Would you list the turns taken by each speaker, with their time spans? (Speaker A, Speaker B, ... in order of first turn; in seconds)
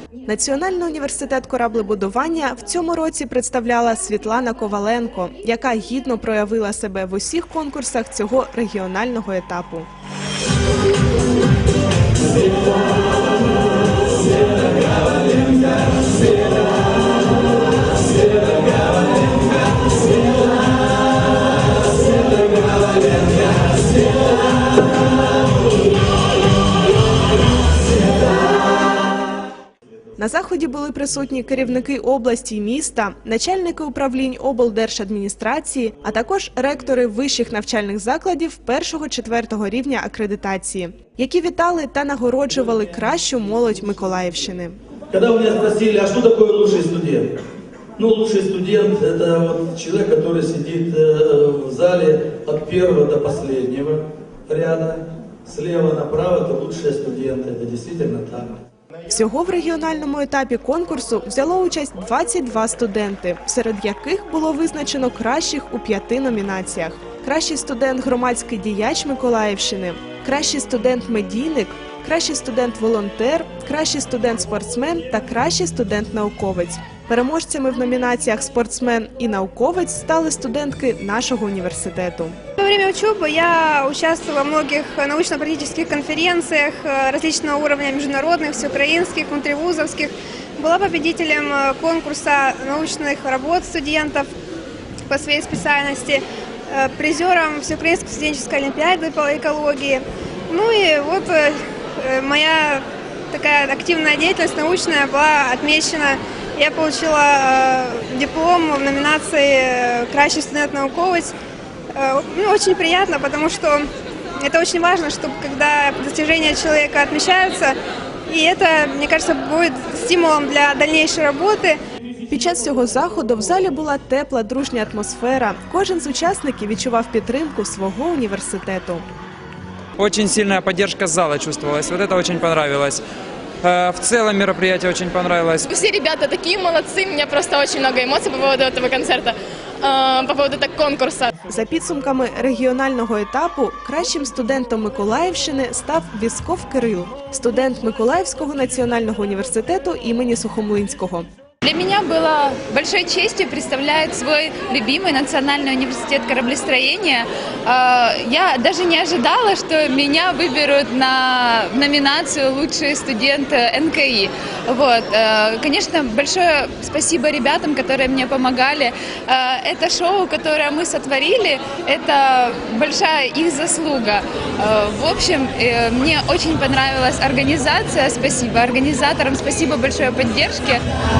Speaker A: 0.2-9.9, 30.2-44.7, 59.1-82.4, 122.3-129.1, 141.5-151.3
Speaker B: 45.1-47.3, 48.0-58.6
Speaker C: 82.6-94.3, 95.1-111.3, 111.9-113.8, 114.4-117.8, 118.3-121.8
Speaker D: 130.0-133.0, 133.6-135.7
Speaker E: 135.7-141.3
Speaker F: 151.6-180.8